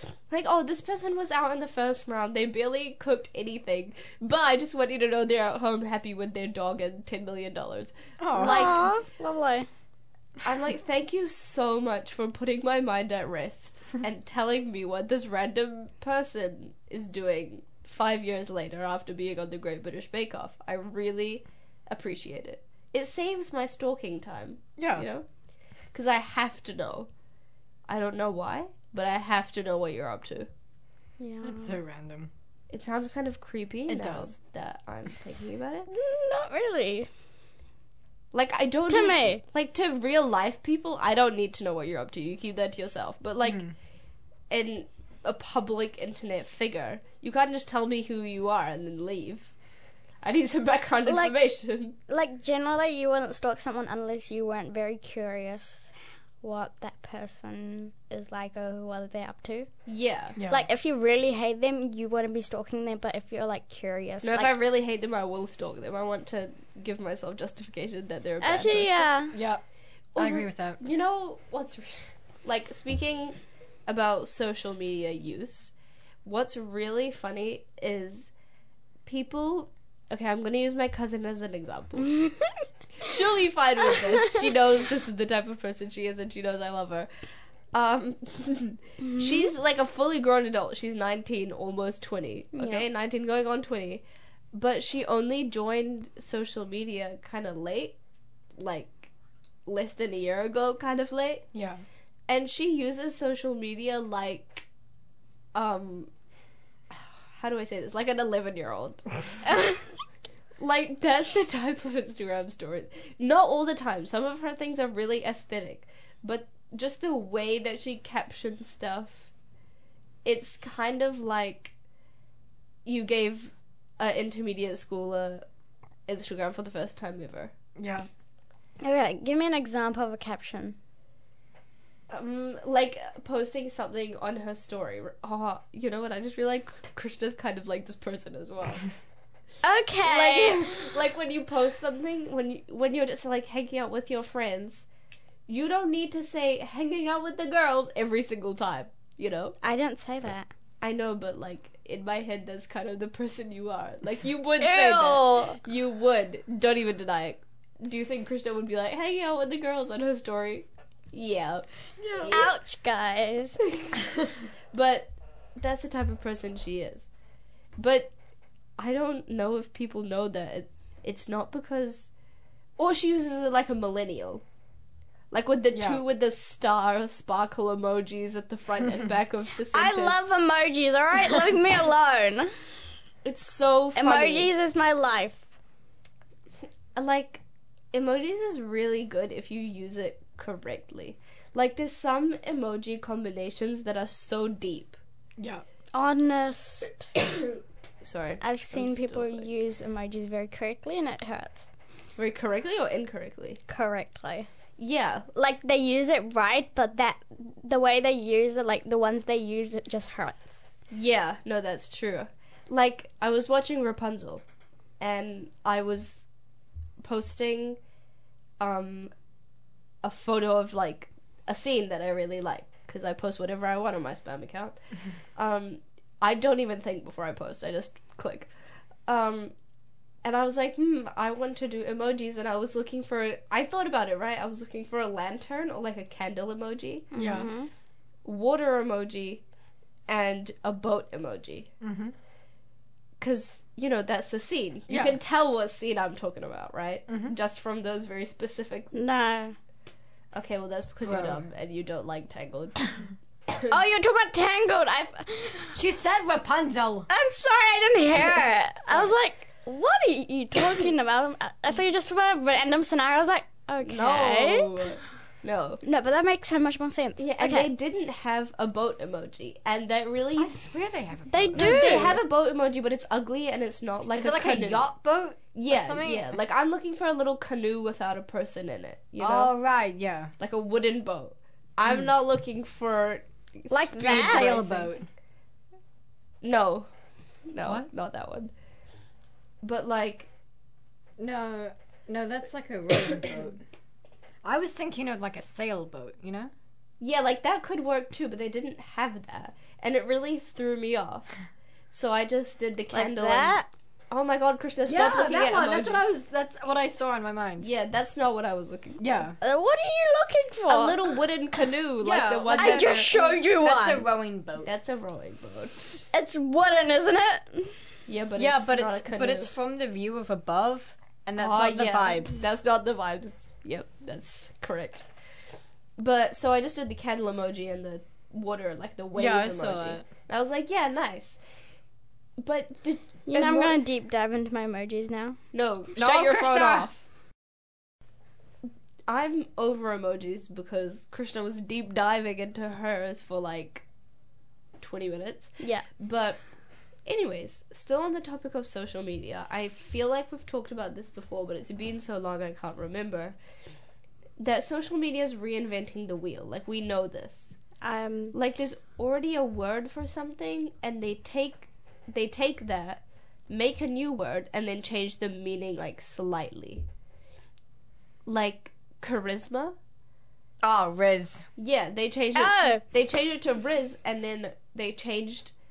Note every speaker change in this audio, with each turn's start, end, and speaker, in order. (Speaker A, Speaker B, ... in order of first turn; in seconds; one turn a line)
Speaker A: 0.3-8.9
Speaker B: 8.2-8.7
Speaker C: 8.4-9.7
Speaker A: 10.4-25.3
Speaker B: 24.8-25.1
Speaker A: 25.9-27.1
Speaker A: 27.9-30.5
Speaker C: 31.2-31.8
Speaker B: 31.4-32.3
Speaker A: 32.7-35.9
Speaker B: 33.9-34.3
Speaker C: 35.9-37.1
Speaker A: 38.3-43.6
Speaker C: 38.9-39.4
Speaker B: 43.4-43.7
Speaker A: 44.5-49.5
Speaker A: 50.2-52.0
Speaker C: 51.1-51.4
Speaker C: 52.1-59.7
Speaker A: 59.9-60.4
Speaker B: 60.4-60.6
Speaker C: 60.5-64.5
Speaker A: 64.2-69.1
Speaker C: 68.4-69.4
Speaker B: 69.3-69.6
Speaker A: 70.2-75.7
Speaker B: 70.2-70.8
Speaker A: 76.2-78.3
Speaker A: 79.0-82.2
Speaker A: 83.0-87.1
Speaker A: 87.7-94.0
Speaker C: 89.0-89.5
Speaker C: 92.5-92.8
Speaker A: 94.5-98.0
Speaker A: 98.6-99.1
Speaker A: 99.7-101.5
Speaker B: 101.5-101.8
Speaker A: 102.3-104.7
Speaker A: 105.5-106.1
Speaker A: 106.9-109.4
Speaker A: 110.6-119.3
Speaker A: 120.2-121.7
Speaker A: 122.8-125.5
Speaker A: 126.1-127.5
Speaker B: 127.8-128.1
Speaker C: 128.8-130.8
Speaker A: 132.1-138.9
Speaker C: 139.6-140.9
Speaker A: 140.0-144.9
Speaker A: 145.5-149.6
Speaker C: 149.6-150.5
Speaker A: 150.8-161.7
Speaker C: 154.6-155.6
Speaker B: 162.0-162.5
Speaker A: 162.2-162.6
Speaker C: 162.3-163.6
Speaker A: 164.7-167.1
Speaker A: 167.8-168.1
Speaker A: 168.8-172.1
Speaker A: 172.8-174.4
Speaker A: 175.3-180.2
Speaker B: 175.7-176.0
Speaker C: 179.7-182.5
Speaker A: 183.2-184.5
Speaker C: 184.0-185.4
Speaker A: 187.0-195.0
Speaker B: 195.4-195.6
Speaker C: 195.9-197.1
Speaker A: 198.0-199.5
Speaker C: 198.4-201.7
Speaker A: 202.2-203.6
Speaker C: 203.7-204.5
Speaker A: 204.8-205.3
Speaker C: 205.3-210.7
Speaker A: 210.9-214.4
Speaker A: 215.0-216.2
Speaker A: 217.0-217.8
Speaker A: 218.6-219.1
Speaker A: 220.0-224.8
Speaker A: 225.4-228.5
Speaker A: 229.1-229.5
Speaker A: 230.2-237.1
Speaker C: 237.1-237.7
Speaker B: 237.2-237.5
Speaker A: 238.2-239.4
Speaker A: 240.1-241.7
Speaker B: 241.8-242.1
Speaker A: 243.2-248.9
Speaker B: 244.9-245.2
Speaker B: 247.1-247.3
Speaker C: 248.9-249.6
Speaker A: 250.3-252.9
Speaker B: 251.0-251.4
Speaker C: 253.7-255.8
Speaker B: 255.8-257.1
Speaker C: 257.1-264.7
Speaker A: 263.8-265.8
Speaker C: 265.8-267.7
Speaker A: 267.2-270.6
Speaker B: 270.4-272.2
Speaker C: 271.3-272.2
Speaker A: 271.6-274.9
Speaker B: 274.1-276.4
Speaker A: 275.5-279.5
Speaker B: 279.2-280.3
Speaker A: 280.4-284.9
Speaker C: 283.7-284.8
Speaker B: 284.0-285.1
Speaker A: 286.4-286.9
Speaker A: 287.5-288.5
Speaker B: 287.6-287.9
Speaker A: 289.6-290.3
Speaker B: 291.2-293.6
Speaker B: 294.4-296.5
Speaker A: 297.0-301.3
Speaker A: 301.9-303.6
Speaker C: 302.9-303.7
Speaker A: 304.1-306.0
Speaker B: 304.9-307.7
Speaker A: 307.6-309.1
Speaker B: 309.0-309.4
Speaker C: 309.4-311.1
Speaker A: 310.7-313.4
Speaker B: 312.0-314.7
Speaker C: 312.5-314.1
Speaker A: 314.6-316.1
Speaker C: 316.1-317.8
Speaker A: 318.1-319.5
Speaker B: 318.4-322.5
Speaker A: 321.4-325.1
Speaker A: 326.0-331.4
Speaker B: 329.1-330.1
Speaker A: 332.4-333.8
Speaker C: 333.3-335.4
Speaker A: 335.5-337.1
Speaker B: 336.0-336.9
Speaker A: 339.1-343.8
Speaker A: 344.8-346.4
Speaker C: 345.6-345.9
Speaker A: 347.1-353.4
Speaker A: 354.4-357.6
Speaker C: 357.8-358.4
Speaker A: 358.3-366.9
Speaker A: 368.3-369.8
Speaker B: 370.6-371.4
Speaker A: 371.6-375.5
Speaker C: 372.4-372.8